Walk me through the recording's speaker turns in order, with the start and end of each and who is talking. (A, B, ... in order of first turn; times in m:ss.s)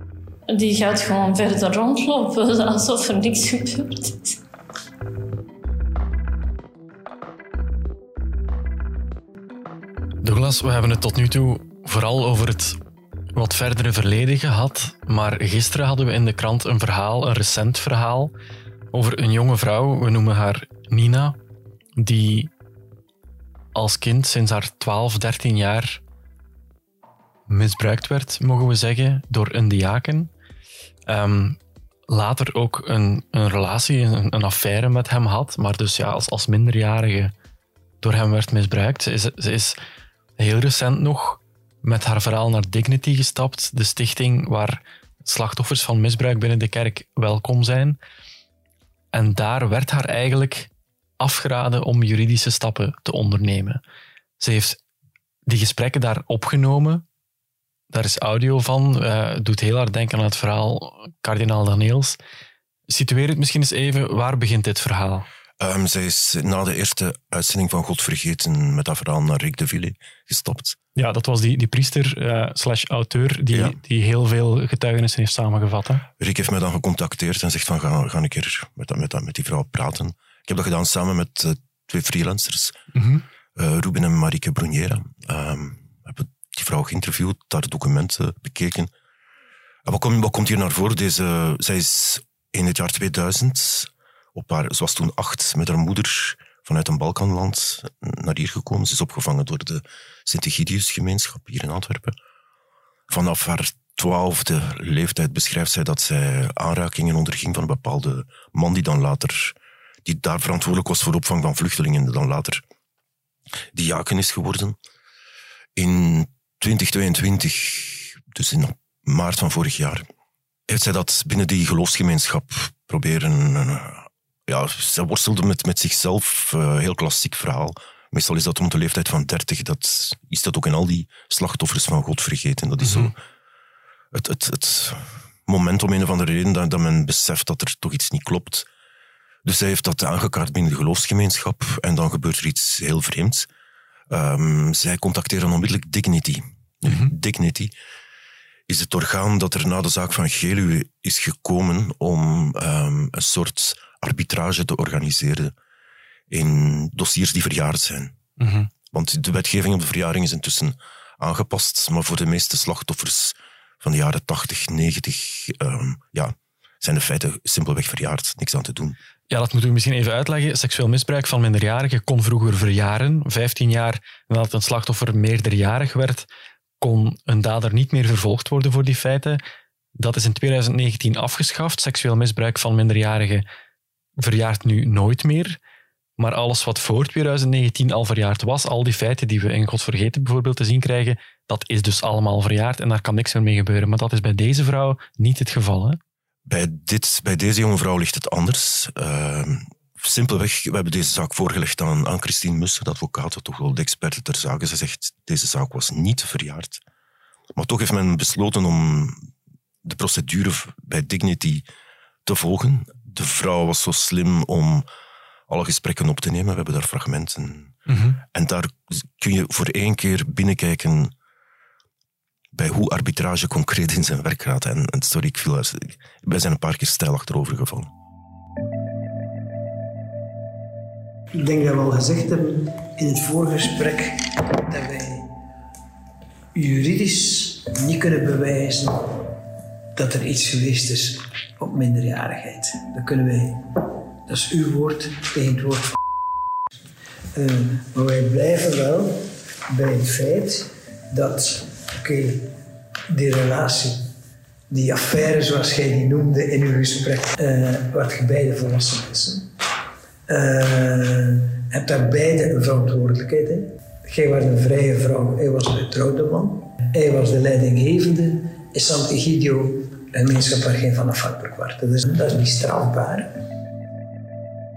0:00.5-0:04.4 A
0:10.2-0:12.8 B
0:13.3-0:18.3 B
0:18.9-0:21.4 B
0:22.0-0:22.5 B
0:23.7-0:26.0 B
0:27.5-0:30.3 B
0:31.1-0:31.6 B
0:32.1-0:37.3 B
0:38.0-0:39.8 B
0:40.4-0:48.0 B
0:49.1-0:50.7 B
0:51.2-0:53.8 B
0:54.4-0:54.8 B
0:55.5-0:57.0 B
0:57.9-1:02.2 B
1:02.9-1:05.2 B
1:05.6-1:10.8 C
1:11.0-1:16.0 B
1:16.2-1:22.8 C
1:22.9-1:23.2 B
1:23.6-1:28.9 C
1:29.8-1:42.1 C
1:43.1-1:52.6 C
1:53.7-1:54.8 C
1:55.8-2:00.0 C
2:00.7-2:13.1 C
2:12.8-2:13.1 B
2:14.1-2:18.7 C
2:19.4-2:23.5 C
2:24.1-2:27.7 C
2:26.8-2:27.1 B
2:28.7-2:35.5 C
2:36.3-2:38.2 C
2:38.4-2:38.7 B
2:38.9-2:49.0 C
2:49.3-2:56.2 B
2:56.8-2:59.4 B
3:00.0-3:03.4 B
3:04.2-3:05.6 B
3:06.2-3:16.0 B
3:16.4-3:26.8 C
3:27.5-3:29.3 C
3:29.8-3:31.6 C
3:32.2-3:34.8 C
3:35.5-3:41.1 C
3:37.9-3:38.2 B
3:42.5-3:47.9 C
3:51.4-3:55.3 D
3:56.5-3:59.1 D
3:59.9-4:03.6 D
4:04.3-4:06.0 D
4:07.3-4:12.5 D
4:13.1-4:14.1 D
4:14.7-4:19.5 D
4:20.3-4:33.3 D